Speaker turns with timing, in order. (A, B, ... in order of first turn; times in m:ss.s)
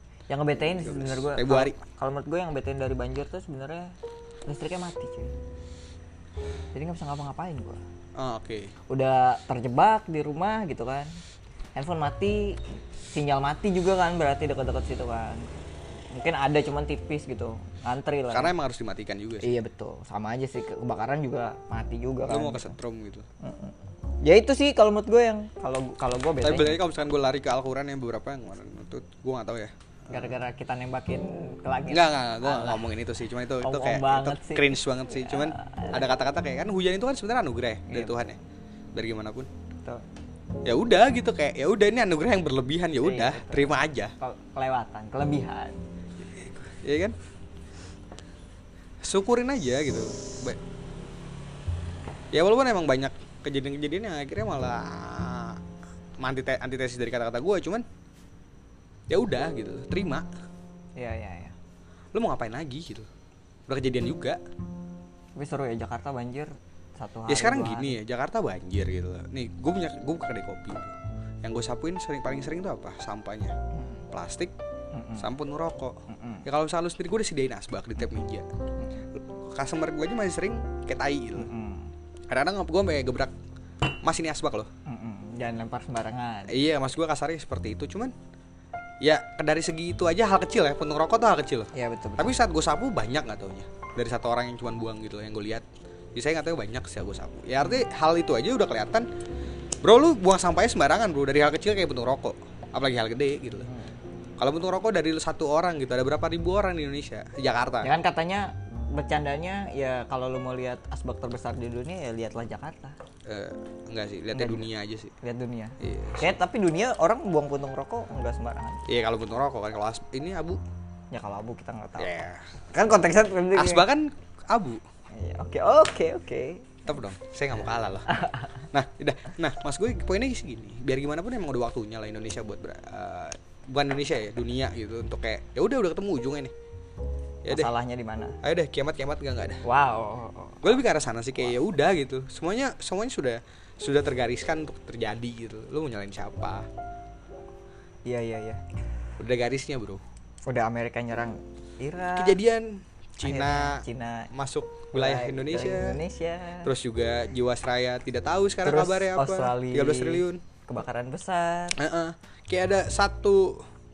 0:00.3-0:03.9 A
0:00.6-0:01.8 B
0:04.4-0:05.3 A
0:06.7-0:07.8 A
0:08.2-0:08.7 B
0:08.9-0:11.1 A
0:11.8-0:12.6 A
0:13.1-0:15.5 A
0:16.1-0:18.5 A
0:18.3-0:19.5 B
0:19.4-0:22.8 A
0:22.3-0:23.2 B
0:23.4-0:26.8 A
0:26.4-0:30.3 B
0:30.1-0:32.8 A
0:31.9-0:38.4 B
0:33.6-0:36.0 A
0:37.9-0:38.2 A
0:38.9-0:39.5 B
0:40.6-0:44.1 B
0:43.0-0:45.8 A
0:46.4-0:47.1 B
0:49.0-0:50.6 B
0:52.3-0:55.6 B
0:56.2-0:57.8 B
0:59.1-1:00.3 B
1:01.0-1:01.5 A
1:02.1-1:03.1 B
1:03.7-1:04.4 B
1:05.4-1:08.0 A
1:07.3-1:13.5 B
1:13.7-1:14.1 A
1:14.1-1:14.5 B
1:14.9-1:15.3 A
1:15.2-1:18.5 B
1:16.1-1:16.4 A
1:19.2-1:21.5 B
1:21.4-1:21.9 A
1:22.3-1:23.3 B
1:24.0-1:24.7 B
1:24.8-1:26.5 A
1:26.5-1:28.1 B
1:29.0-1:39.0 B
1:31.7-1:32.3 A
1:39.8-1:43.7 B
1:43.7-1:43.9 A
1:44.4-1:47.9 B
1:47.8-1:53.0 A
1:53.2-1:55.1 B
1:54.3-1:54.7 A
1:55.2-1:58.8 A
1:55.8-1:56.3 B
1:58.9-2:00.6 B
2:01.1-2:03.8 A
2:02.0-2:02.4 B
2:03.5-2:04.8 B
2:05.2-2:06.8 A
2:06.8-2:08.1 B
2:08.1-2:08.6 A
2:08.7-2:16.5 B
2:17.4-2:17.7 B
2:17.5-2:18.4 A
2:18.4-2:19.6 B
2:19.6-2:20.7 A
2:20.6-2:26.7 B
2:28.0-2:28.6 A
2:29.2-2:30.0 B
2:30.5-2:32.4 A
2:32.1-2:36.0 B
2:33.2-2:34.3 A
2:34.9-2:36.7 A
2:36.6-2:40.4 B
2:38.6-2:41.8 A
2:41.8-2:43.6 B